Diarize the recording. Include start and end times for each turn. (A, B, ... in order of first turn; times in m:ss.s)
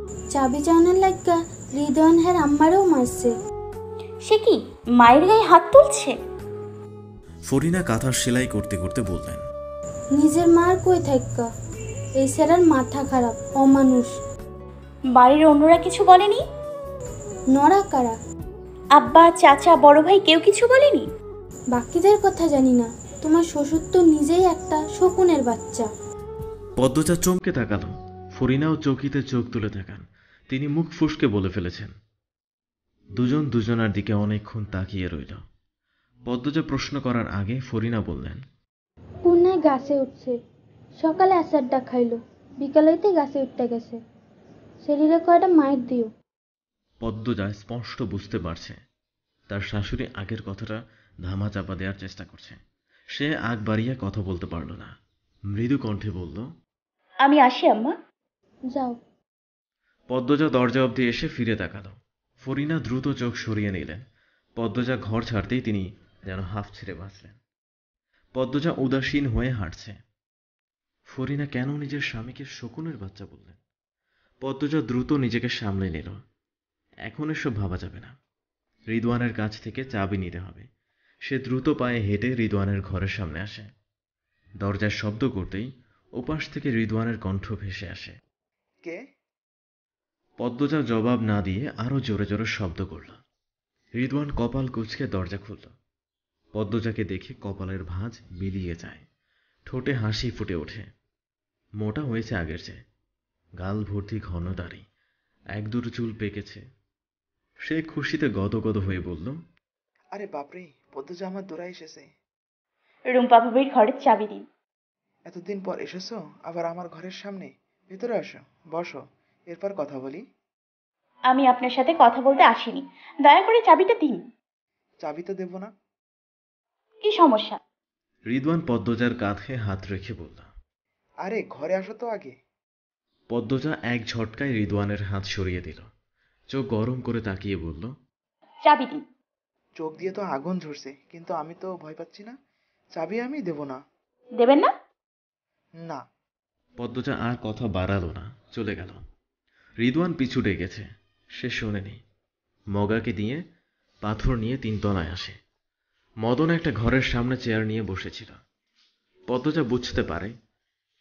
0:00.3-0:03.3 A
0:04.2-0:06.2 B
0:07.5-0:09.4 C
0:10.2-0:11.4 A
0:12.2-0:14.1 A
0:15.1-0:16.4 B
0:17.5-0:18.1 A
0:19.0-0:21.1 B
0:21.7-0:25.8 A
0:26.8-0:31.9 C
0:33.2-0:35.4 C
0:36.3-0:38.4 C
0:39.3-0:40.3 A
0:41.0-0:43.9 A
0:44.9-0:46.1 A
0:47.0-0:48.8 C
0:49.5-0:52.6 C
0:53.2-0:54.9 C
0:55.5-0:56.5 C
0:57.2-0:57.9 B
1:00.1-1:04.0 C
1:04.6-1:07.4 C
1:08.4-1:10.0 C
1:11.1-1:13.6 C
1:14.4-1:16.2 C
1:17.0-1:18.1 C
1:18.9-1:20.7 C
1:21.2-1:23.7 C
1:24.6-1:25.7 C
1:26.2-1:28.1 C
1:30.4-1:33.2 C
1:34.0-1:35.7 C
1:36.5-1:39.0 C
1:39.7-1:40.9 C
1:41.8-1:42.8 C
1:43.6-1:44.8 C
1:45.5-1:46.6 C
1:47.6-1:49.4 C
1:50.1-1:52.1 D
1:53.1-1:54.4 B
1:55.3-2:00.2 D
2:01.3-2:04.2 B
2:05.0-2:05.7 D
2:07.0-2:07.6 B
2:08.3-2:10.5 C
2:11.2-2:12.3 D
2:13.3-2:15.9 C
2:16.5-2:17.9 C
2:18.6-2:19.0 B
2:19.8-2:22.3 D
2:23.0-2:23.8 D
2:24.4-2:24.7 B
2:26.8-2:29.0 C
2:29.8-2:30.9 C
2:31.4-2:32.0 C
2:32.8-2:33.4 C
2:34.0-2:35.4 C
2:36.2-2:38.4 C
2:39.3-2:40.3 C